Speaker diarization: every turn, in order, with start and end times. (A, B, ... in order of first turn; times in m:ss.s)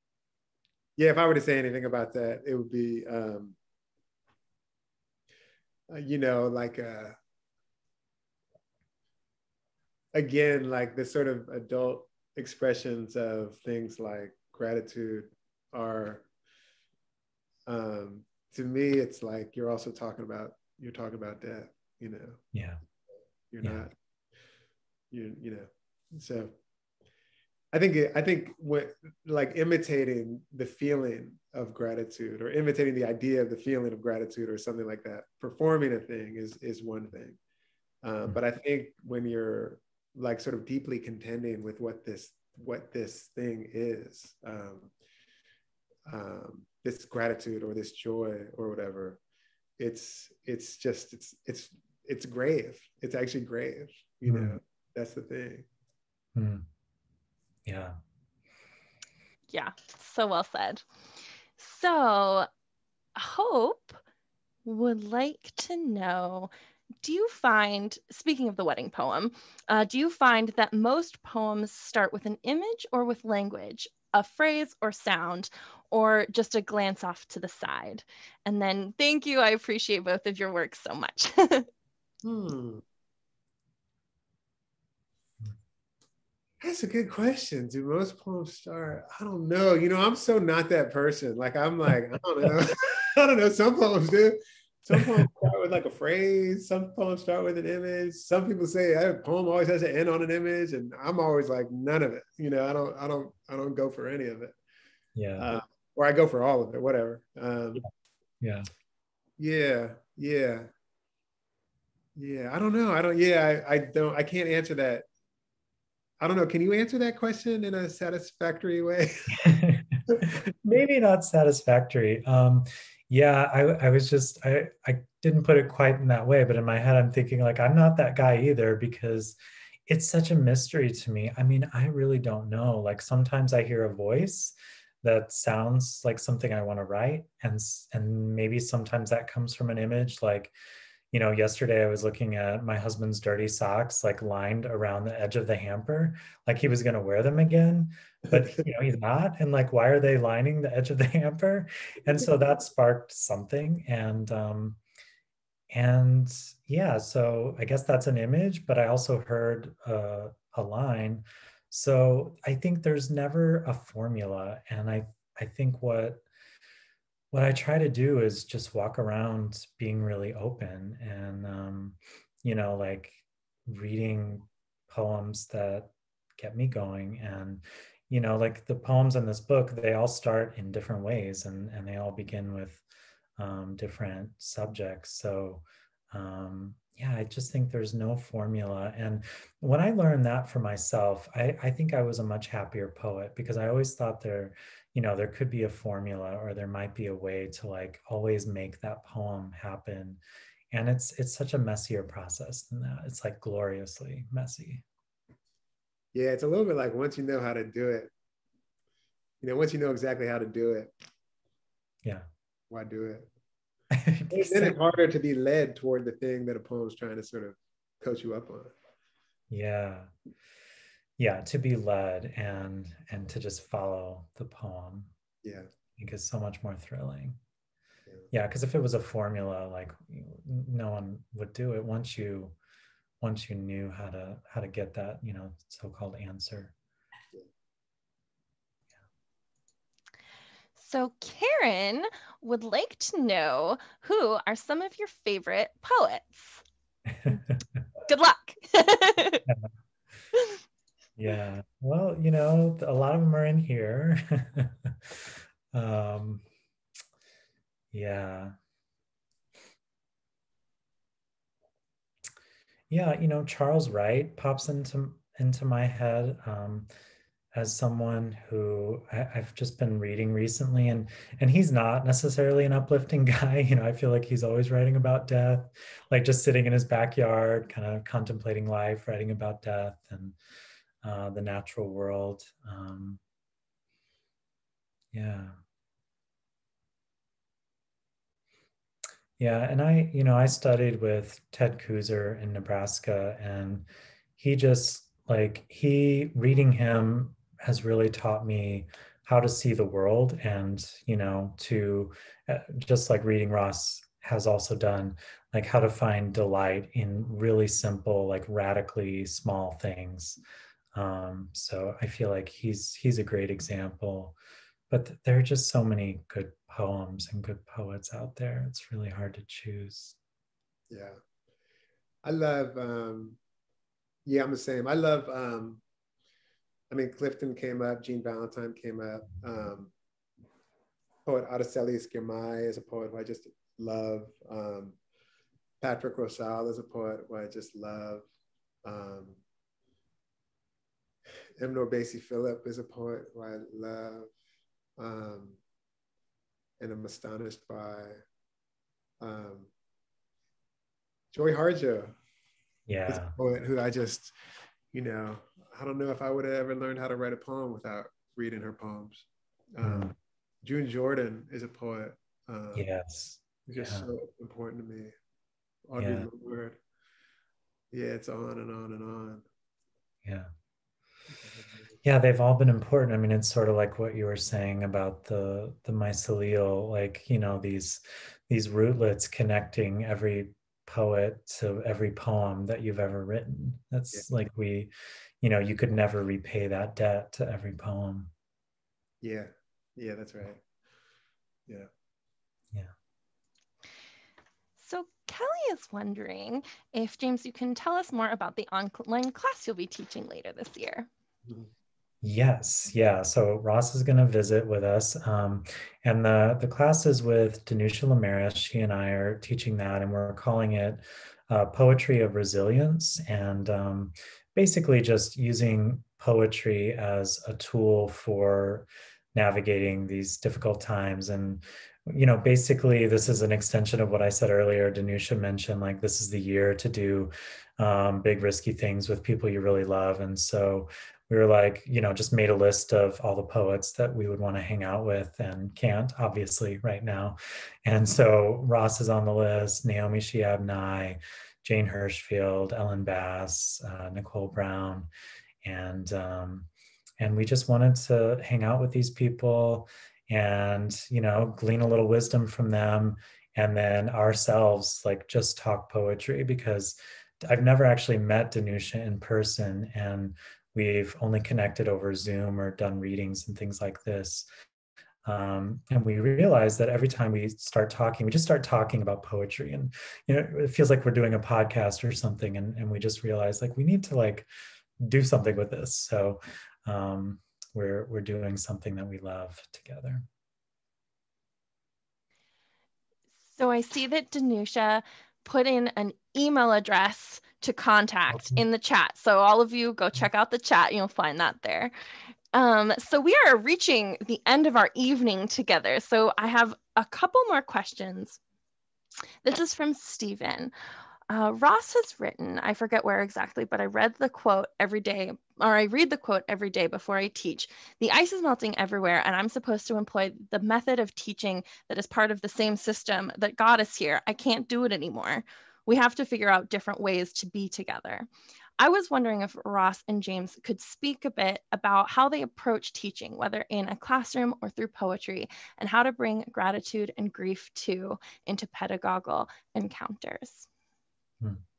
0:01.0-0:03.6 A
0:05.9-0:07.2 A
0:10.1-0:16.3 A
0:17.7-0:22.4 A
0:22.5-0:22.8 B
0:23.5-0:23.9 A
0:25.1-0:26.5 A
0:27.7-0:37.4 A
0:38.0-0:44.9 A
0:46.1-0:49.2 A
0:49.8-0:55.6 A
0:54.3-0:54.6 B
0:56.3-0:56.6 B
0:57.6-0:58.0 B
0:59.5-1:00.8 C
1:01.6-1:02.5 C
1:03.2-1:04.0 C
1:04.6-1:06.5 C
1:07.0-1:21.7 C
1:22.2-1:22.8 A
1:26.6-1:44.6 A
1:34.9-1:35.3 B
1:45.1-1:45.5 B
1:45.4-1:47.9 A
1:48.4-1:48.7 B
1:49.4-1:50.7 A
1:52.2-1:55.0 A
1:56.2-1:59.4 A
1:59.3-2:20.5 B
2:21.1-2:34.8 B
2:35.7-2:46.2 B
2:47.3-3:02.8 B
3:03.4-3:20.2 B
3:20.7-3:24.8 B
3:26.1-3:28.1 A
3:29.4-3:30.9 A
3:32.7-3:33.3 A
3:33.9-3:34.8 B
3:34.3-3:38.7 A
3:39.5-3:40.1 B
3:41.2-3:45.1 B
3:45.4-3:45.7 A
3:46.0-3:47.4 B
3:48.3-3:52.6 B
3:53.2-3:56.7 B
4:00.8-4:06.6 C
4:07.1-4:07.6 B
4:08.1-4:09.4 C
4:11.2-4:16.4 B
4:17.9-4:18.5 B
4:22.9-4:26.9 B
4:27.6-4:40.4 B
4:41.0-4:43.2 B
4:45.1-4:45.6 B
4:49.4-5:10.4 B
5:10.9-5:14.4 B
5:14.9-5:20.2 B
5:20.9-5:21.2 A
5:22.2-5:23.4 A
5:24.3-5:25.8 A
5:26.9-5:29.9 A
5:31.3-5:35.0 A
5:35.8-5:38.3 A
5:38.8-5:39.4 A
5:41.6-5:44.3 A
5:45.0-5:45.6 A
5:46.8-5:48.2 A
5:49.2-5:49.7 A
5:51.3-5:52.2 A
5:52.9-5:53.3 B
5:53.1-5:54.3 A
5:54.9-6:02.9 A
5:59.8-6:00.1 B
6:02.7-6:04.1 B
6:03.7-6:05.1 A
6:05.9-6:06.8 A
6:06.0-6:06.3 B
6:07.9-6:09.4 A
6:10.2-6:10.5 B
6:12.0-6:28.3 B
6:29.2-6:30.6 A
6:34.8-6:41.1 C
6:42.2-7:25.1 B
7:25.6-7:26.7 B
7:27.2-7:44.5 B
7:45.2-7:54.5 B
7:55.0-8:00.3 B
8:03.6-8:11.9 C
8:08.3-8:08.6 B
8:12.5-8:18.4 C
8:19.4-8:20.7 C
8:21.3-8:38.3 C
8:38.8-8:50.7 C